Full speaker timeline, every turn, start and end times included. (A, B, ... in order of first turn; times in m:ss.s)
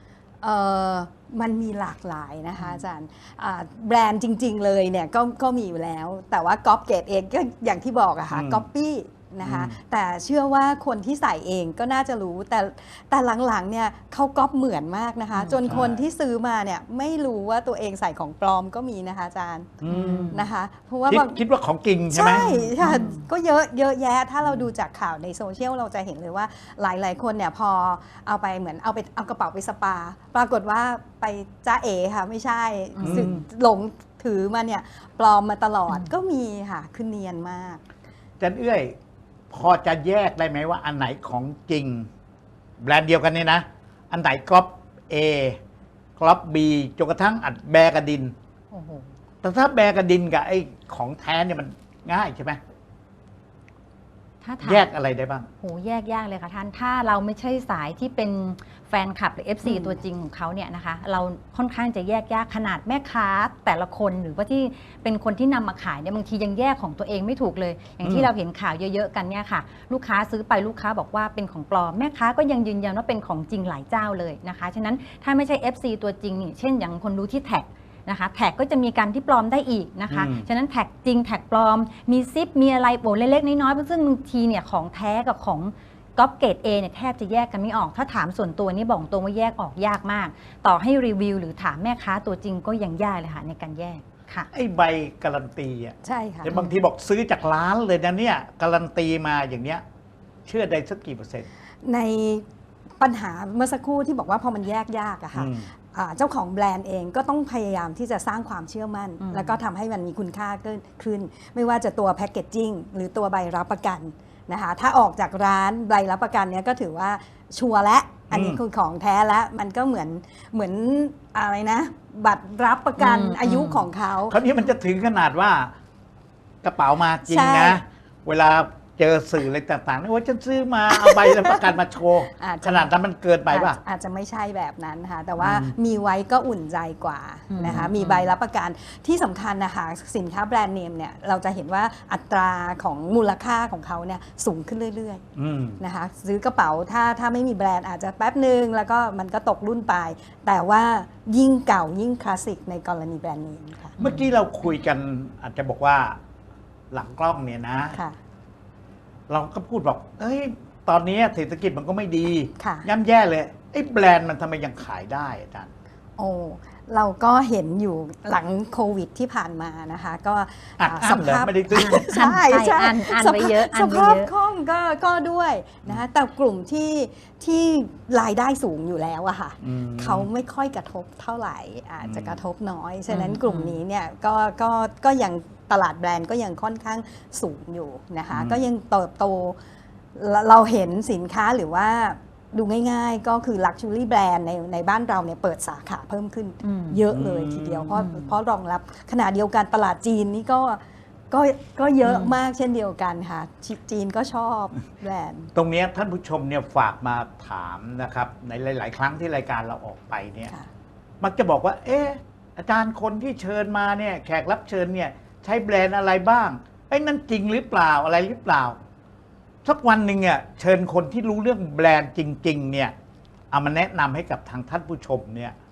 0:00.4-0:21.4 A
0:08.3-0:08.7 B
0:09.4-0:09.8 B
0:15.4-0:15.7 C
0:15.6-0:16.0 B
0:19.8-0:20.3 B
0:19.9-0:20.5 C
0:21.1-0:22.5 B
0:22.1-0:37.8 A
0:22.4-0:23.2 C
0:33.0-0:33.4 C
0:33.0-0:33.4 B
0:38.4-0:38.9 B
0:39.5-0:42.1 B
0:42.8-0:45.6 B
0:46.2-0:48.3 B
0:48.7-0:49.1 C
0:49.4-0:52.6 B
0:54.4-0:54.9 C
0:54.6-0:55.5 B
0:55.6-1:34.5 C
1:08.0-1:08.3 B
1:20.1-1:20.4 B
1:34.5-1:39.8 B
1:36.0-1:36.6 A
1:40.4-1:41.5 B
1:41.8-1:42.4 A
1:43.0-2:04.4 A
1:45.3-1:45.7 B
1:49.2-1:49.6 C
1:58.3-1:58.6 B
2:03.0-2:03.8 C
2:04.3-2:05.7 B
2:06.6-2:13.8 B
2:07.3-2:07.8 A
2:11.0-2:11.6 A
2:12.4-2:12.9 A
2:13.5-2:25.2 A
2:15.4-2:15.7 B
2:17.5-2:18.3 C
2:25.4-2:25.8 B
2:25.8-2:34.0 A
2:34.0-2:34.3 C
2:34.0-2:36.2 B
2:36.9-2:38.0 B
2:39.3-2:45.7 B
2:42.6-2:42.9 A
2:46.2-3:09.6 A
2:50.8-2:52.0 B
2:51.7-2:54.3 C
2:59.6-3:00.3 B
3:02.0-3:02.4 B
3:03.1-3:03.8 C
3:08.3-3:08.6 B
3:10.1-3:25.5 A
3:16.6-3:17.0 C
3:17.1-3:18.0 B
3:17.9-3:18.3 C
3:22.0-3:22.4 C
3:25.5-3:30.5 B
3:31.2-3:38.8 B
3:39.6-3:42.9 B
3:43.5-3:45.6 B